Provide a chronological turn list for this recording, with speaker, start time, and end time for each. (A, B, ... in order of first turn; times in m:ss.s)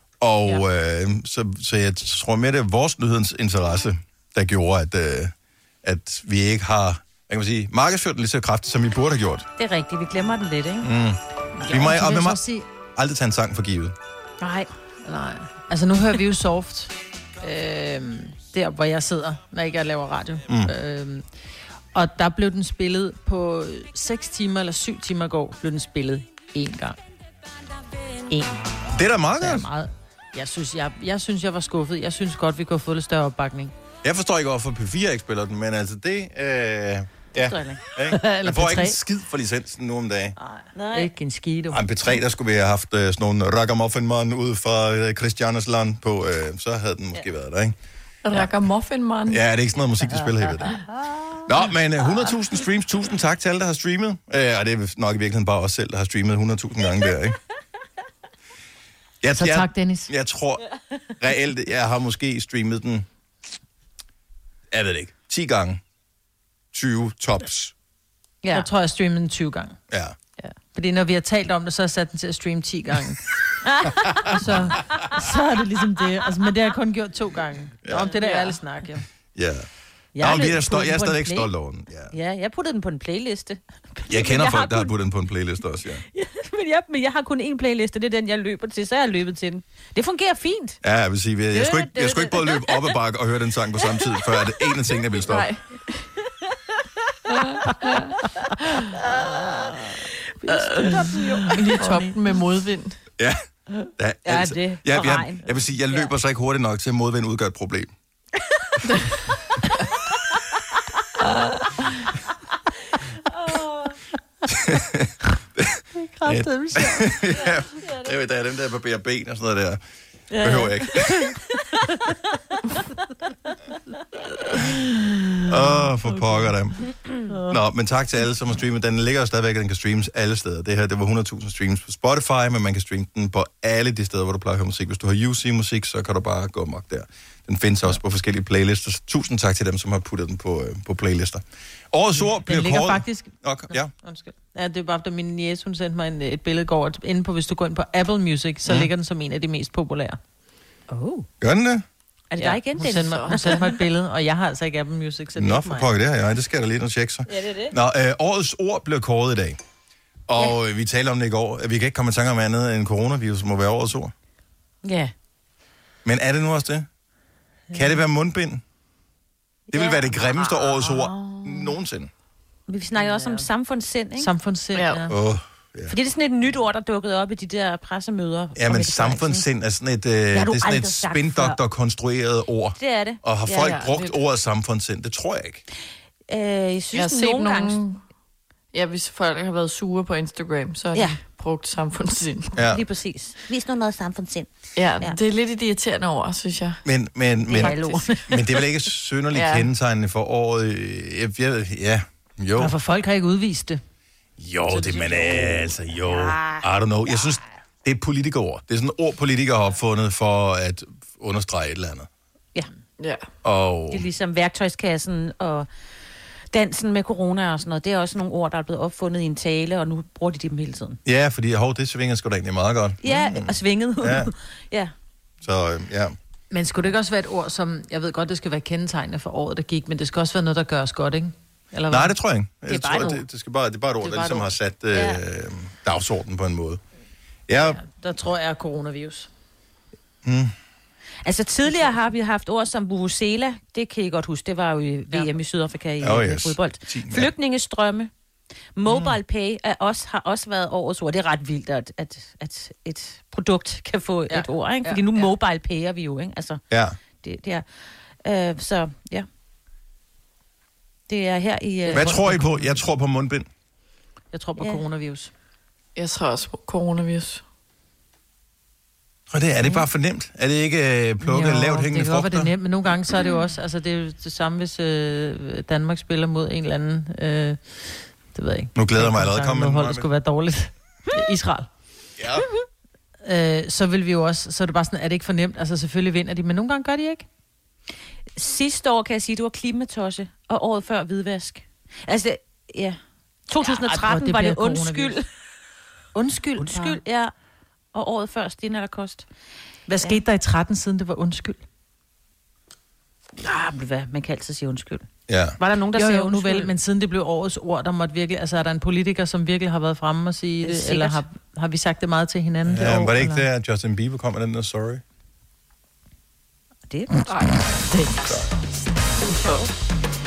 0:00.2-0:09.5 A
0:09.6-0:10.9 B
0:10.8-0:12.4 A
0:11.6-0:12.6 C
0:13.0-0:13.9 A
0:14.4-0:14.7 B
0:15.0-0:21.3 C
0:20.5-0:20.7 A
0:21.9-0:27.0 C
0:28.3-0:28.6 C
0:28.9-0:29.7 A
0:29.4-0:33.7 C
0:34.0-0:40.3 A
0:37.4-0:37.8 B
0:38.1-0:39.0 C
0:40.4-0:41.1 B
0:40.9-0:41.8 C
0:41.7-0:47.8 A
0:48.2-0:49.4 D
0:49.3-0:50.7 A
0:51.5-0:57.4 A
0:59.2-1:00.6 A
0:59.3-1:00.1 C
1:01.2-1:03.1 A
1:04.7-1:05.8 A
1:06.7-1:07.7 A
1:08.5-1:09.8 C
1:09.9-1:10.2 A
1:10.7-1:13.3 C
1:14.3-1:19.0 C
1:18.2-1:18.6 D
1:19.3-1:19.7 A
1:20.1-1:21.5 B
1:20.2-1:22.1 A
1:22.1-1:24.9 B
1:24.1-1:26.0 A
1:26.1-1:30.8 B
1:30.8-1:35.5 A
1:31.5-1:32.9 B
1:35.3-1:36.0 D
1:37.3-1:38.1 D
1:38.9-1:40.0 B
1:40.4-1:43.0 D
1:40.5-1:42.1 B
1:41.5-1:42.0 C
1:43.8-1:46.1 B
1:44.0-1:47.9 A
1:48.8-1:49.1 D
1:53.3-1:54.0 B
1:54.5-1:59.8 A
1:56.0-1:57.1 C
2:00.3-2:01.0 B
2:00.4-2:01.3 A
2:05.5-2:06.8 A
2:07.5-2:23.9 A
2:22.2-2:30.2 C
2:30.9-2:31.2 B
2:31.4-2:31.8 A
2:32.3-2:33.7 B
2:32.4-2:35.9 C
2:33.1-2:33.6 D
2:35.4-2:39.6 A
2:37.3-2:37.7 B
2:40.3-2:44.1 A
2:44.8-2:45.1 B
2:46.0-2:46.9 A
2:47.7-2:48.0 C
2:47.7-2:48.6 A
2:49.7-2:50.9 B
2:49.7-2:52.1 A
2:52.7-2:54.3 B
2:52.9-2:53.4 C
2:54.2-2:55.1 C
2:54.7-2:55.0 D
2:55.1-2:55.9 A
2:55.9-2:59.4 B
2:58.5-3:05.6 A
3:00.3-3:01.6 B
3:02.8-3:03.8 B
3:03.7-3:04.1 D
3:06.3-3:07.8 B
3:06.9-3:08.0 D
3:08.7-3:12.5 D
3:10.9-3:11.2 B
3:12.5-3:12.8 A
3:12.7-3:15.2 B
3:14.8-3:16.8 D
3:16.8-3:22.7 A
3:17.5-3:18.4 B
3:17.5-3:18.0 D
3:19.3-3:19.6 D
3:22.6-3:23.8 C
3:24.4-3:32.1 A
3:24.7-3:26.6 B
3:33.0-3:33.2 D
3:33.4-3:34.0 A
3:33.9-3:35.7 B
3:36.5-3:41.0 B
3:41.0-3:44.3 A
3:43.0-3:44.9 B
3:45.4-3:46.2 A
3:46.5-3:52.2 C
3:51.9-3:56.8 A
3:52.7-3:53.1 B
3:52.9-3:53.2 C
3:54.0-3:54.5 C
3:54.9-3:55.2 B
3:57.5-3:57.8 A
3:57.6-3:59.3 C
4:00.2-4:00.5 A
4:01.2-4:08.1 B
4:06.0-4:07.3 A
4:08.8-4:16.6 B
4:08.9-4:09.1 C
4:14.3-4:15.3 C
4:16.7-4:17.0 A
4:17.2-4:19.2 B
4:21.1-4:22.4 B
4:21.8-4:22.6 C
4:21.9-4:23.5 A
4:24.3-4:25.3 C
4:26.0-4:27.4 D
4:29.3-4:32.5 A
4:31.2-4:41.7 C
4:38.8-4:40.1 A
4:42.2-4:42.4 A
4:43.2-4:47.2 C
4:48.4-4:55.2 B
4:53.6-4:55.2 C
4:56.1-4:57.0 C
4:56.6-4:57.3 B
4:57.9-4:59.3 B
4:59.9-5:01.6 C
5:03.4-5:06.7 B
5:05.3-5:05.6 A
5:05.9-5:13.4 C
5:10.6-5:11.2 B
5:12.6-5:15.0 A
5:16.9-5:17.3 B
5:17.3-5:18.3 D
5:19.2-5:19.7 D